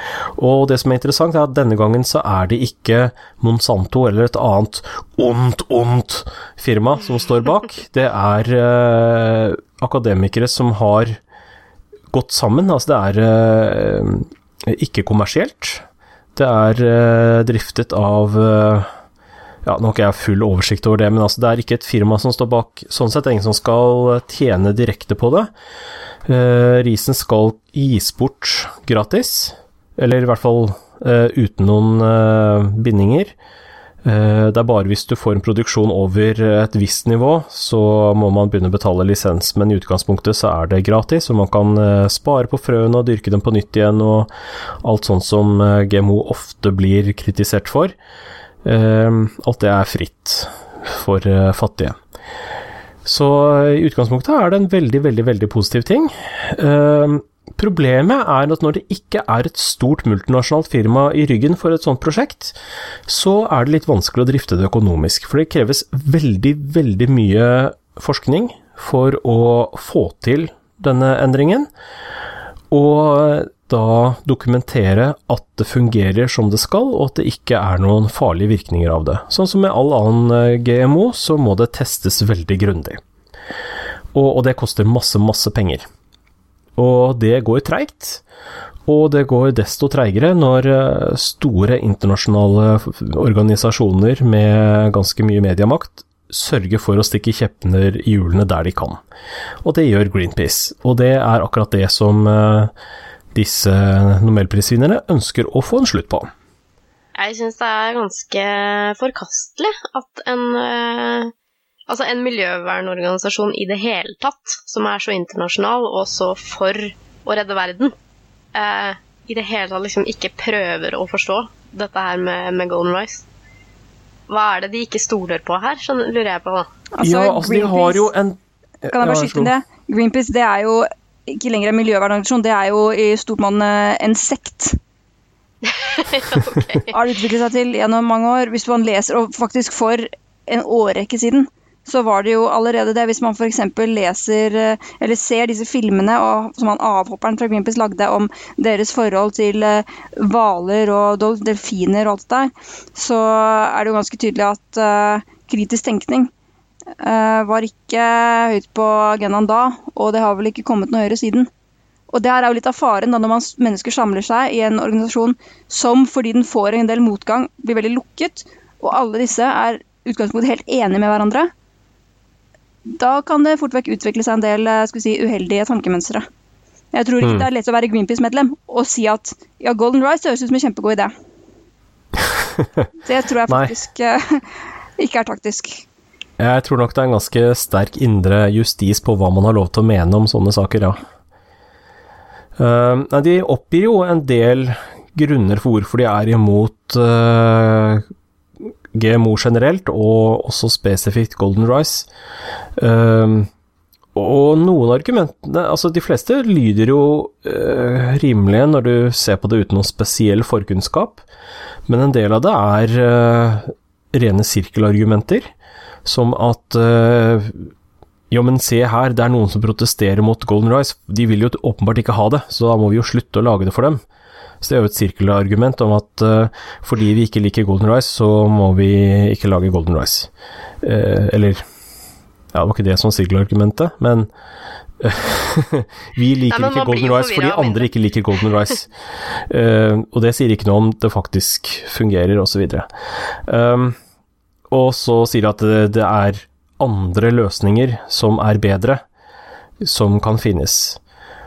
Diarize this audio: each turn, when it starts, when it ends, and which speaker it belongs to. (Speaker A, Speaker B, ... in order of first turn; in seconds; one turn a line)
Speaker A: 0.4-11.2
Speaker A: 12.1-18.9
Speaker A: 19.6-25.5
Speaker A: 26.3-33.3
Speaker A: 34.0-44.3
Speaker A: 44.8-48.0
Speaker A: 48.6-52.0
Speaker A: 53.0-62.6
Speaker A: 63.1-71.7
Speaker A: 72.7-83.0
Speaker A: 84.1-85.9
Speaker A: 86.8-88.2
Speaker A: 88.9-99.0
Speaker A: 99.6-102.7
Speaker A: 103.3-106.3
Speaker B: 107.2-111.3
Speaker B: 111.9-117.9
Speaker B: 118.5-123.2
Speaker B: 124.3-126.7
Speaker C: 127.0-128.1
Speaker A: 127.0-129.5
Speaker C: 128.9-134.8
Speaker B: 135.6-136.9
Speaker C: 136.9-156.3
Speaker C: 157.0-161.5
Speaker C: 162.1-171.5
Speaker C: 172.9-176.3
Speaker C: 176.9-181.1
Speaker A: 177.2-177.5
Speaker A: 182.3-182.9
Speaker C: 183.0-184.4
Speaker C: 185.0-185.8
Speaker A: 186.4-191.0
Speaker A: 192.6-198.1
Speaker A: 198.6-202.1
Speaker A: 202.8-203.5
Speaker A: 204.2-211.2
Speaker A: 211.9-215.5
Speaker A: 216.1-217.7
Speaker A: 218.3-224.0
Speaker A: 224.6-230.3
Speaker A: 230.8-231.6
Speaker A: 232.5-234.3
Speaker A: 235.0-238.9
Speaker B: 236.5-237.9
Speaker A: 239.5-242.9
Speaker A: 243.5-244.0
Speaker A: 244.7-249.0
Speaker A: 249.8-251.0